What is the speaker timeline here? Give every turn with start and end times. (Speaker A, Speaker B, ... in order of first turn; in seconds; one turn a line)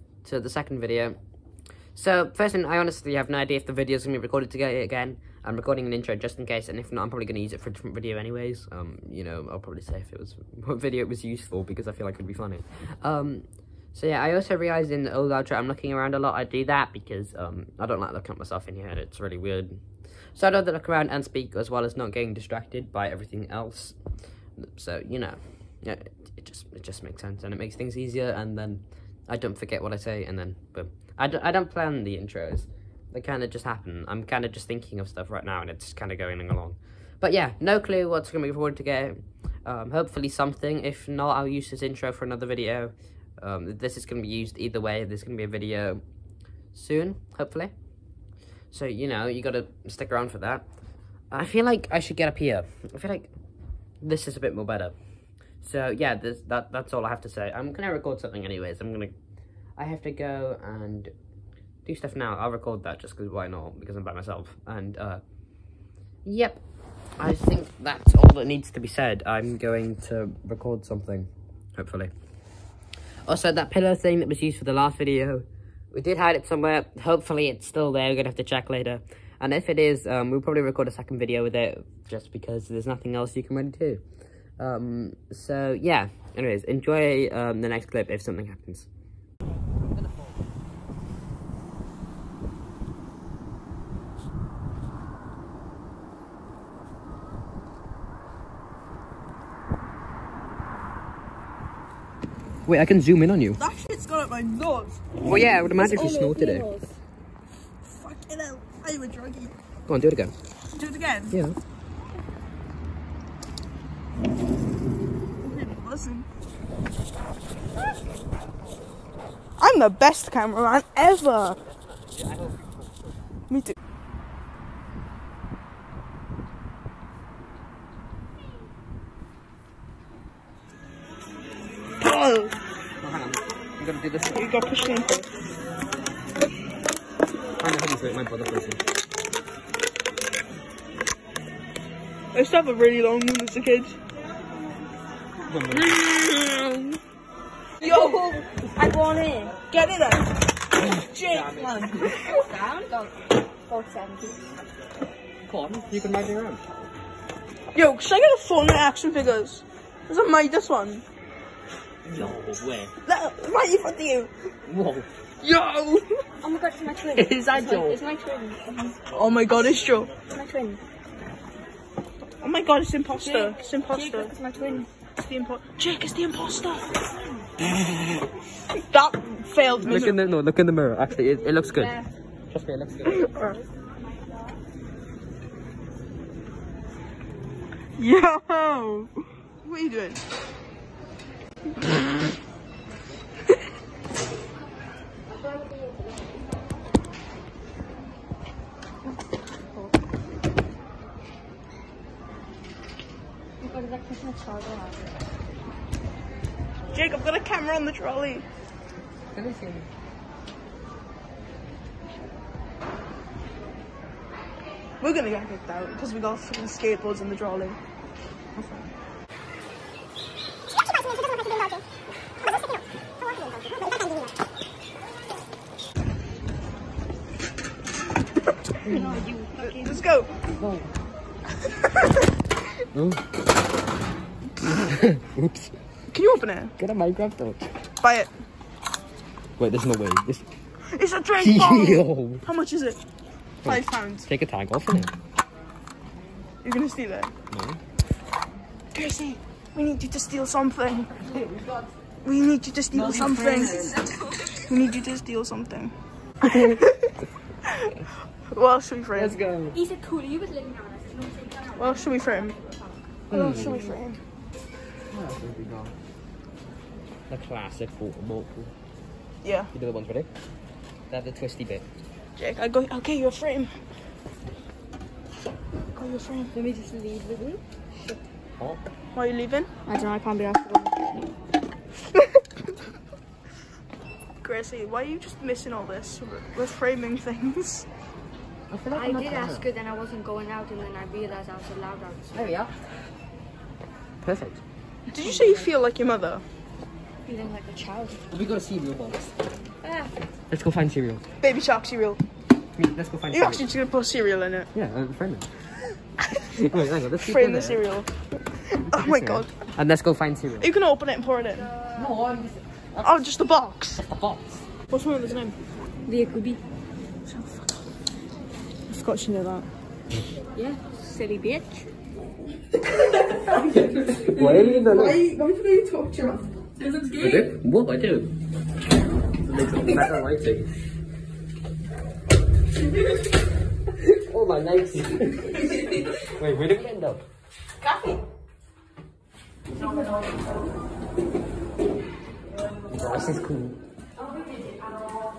Speaker A: 0.2-61.1
Speaker A: 61.8-72.1
Speaker A: 73.2-88.9
Speaker A: 102.7-103.6
Speaker B: 103.6-105.0
Speaker A: 105.2-106.7
Speaker C: 105.7-106.9
Speaker B: 107.8-109.5
Speaker A: 109.9-110.3
Speaker B: 110.7-111.3
Speaker A: 111.3-111.5
Speaker B: 115.4-116.2
Speaker B: 119.6-121.6
Speaker A: 122.0-122.8
Speaker B: 123.5-123.8
Speaker B: 132.0-132.6
Speaker A: 133.0-134.5
Speaker B: 134.3-135.3
Speaker A: 137.6-138.8
Speaker B: 142.3-144.0
Speaker A: 145.5-146.0
Speaker B: 145.7-147.0
Speaker C: 147.8-149.6
Speaker B: 147.8-148.2
Speaker B: 149.7-152.4
Speaker A: 151.3-151.9
Speaker C: 151.6-153.2
Speaker C: 153.7-154.4
Speaker A: 155.4-156.6
Speaker B: 157.7-161.0
Speaker A: 162.0-162.9
Speaker B: 163.0-164.3
Speaker A: 164.7-165.1
Speaker B: 165.4-166.2
Speaker C: 166.4-169.0
Speaker A: 167.1-168.0
Speaker B: 169.1-170.1
Speaker C: 170.2-170.8
Speaker B: 172.4-174.3
Speaker C: 173.2-174.9
Speaker B: 175.2-176.9
Speaker B: 178.7-180.2
Speaker A: 179.8-182.0
Speaker C: 181.6-182.1
Speaker A: 182.5-183.3
Speaker B: 183.1-183.6
Speaker C: 184.2-184.5
Speaker B: 188.0-189.1
Speaker B: 189.6-190.2
Speaker C: 195.3-196.3
Speaker C: 203.6-205.2
Speaker B: 206.9-208.4
Speaker A: 209.3-209.9
Speaker B: 215.0-217.8
Speaker A: 218.5-218.9
Speaker A: 228.8-229.2
Speaker C: 228.9-230.0
Speaker B: 229.6-230.3
Speaker A: 230.6-230.9
Speaker A: 232.9-233.2
Speaker A: 234.6-235.8
Speaker B: 236.1-236.7
Speaker A: 236.8-237.8
Speaker B: 238.0-238.3
Speaker A: 239.6-240.4
Speaker B: 240.9-243.0
Speaker A: 241.4-242.4
Speaker A: 243.6-245.1
Speaker B: 243.6-244.3
Speaker B: 246.6-247.3
Speaker A: 247.5-247.8
Speaker B: 249.0-251.1
Speaker A: 251.2-251.9
Speaker B: 252.2-253.8
Speaker A: 252.9-254.1
Speaker C: 253.6-254.4
Speaker B: 254.7-257.1
Speaker A: 256.5-256.7
Speaker B: 258.4-259.4
Speaker A: 259.1-259.8
Speaker C: 259.7-263.9
Speaker B: 261.8-262.6
Speaker A: 263.3-263.9
Speaker B: 263.3-264.2
Speaker A: 265.1-265.9
Speaker A: 267.3-268.7
Speaker B: 269.4-269.7
Speaker A: 269.7-270.3
Speaker A: 271.1-271.9
Speaker B: 272.4-273.8
Speaker B: 275.9-276.5
Speaker C: 276.5-278.2
Speaker B: 279.1-279.7
Speaker C: 279.9-281.0
Speaker B: 284.4-287.9
Speaker A: 288.7-289.7
Speaker C: 288.9-292.4
Speaker A: 292.3-292.7
Speaker A: 294.2-294.6
Speaker B: 295.1-296.4
Speaker C: 295.1-295.7
Speaker C: 297.3-298.2
Speaker A: 298.3-299.4
Speaker C: 299.8-300.1
Speaker A: 300.5-301.2
Speaker B: 301.4-302.2
Speaker A: 302.8-303.6
Speaker B: 303.3-304.7
Speaker A: 304.7-305.7
Speaker A: 306.3-307.8
Speaker B: 307.2-309.5
Speaker A: 308.8-310.7
Speaker B: 310.6-311.7
Speaker A: 311.9-313.3
Speaker B: 313.0-314.0
Speaker A: 314.0-314.6
Speaker B: 314.9-315.6
Speaker C: 316.1-316.6
Speaker B: 317.3-317.9
Speaker B: 318.9-319.7
Speaker C: 320.6-321.9
Speaker B: 323.4-327.5
Speaker A: 323.6-325.2
Speaker A: 327.2-328.3
Speaker A: 329.4-330.7
Speaker A: 334.0-337.2
Speaker C: 337.8-338.1
Speaker C: 339.8-340.3
Speaker A: 342.9-343.8
Speaker C: 344.2-345.1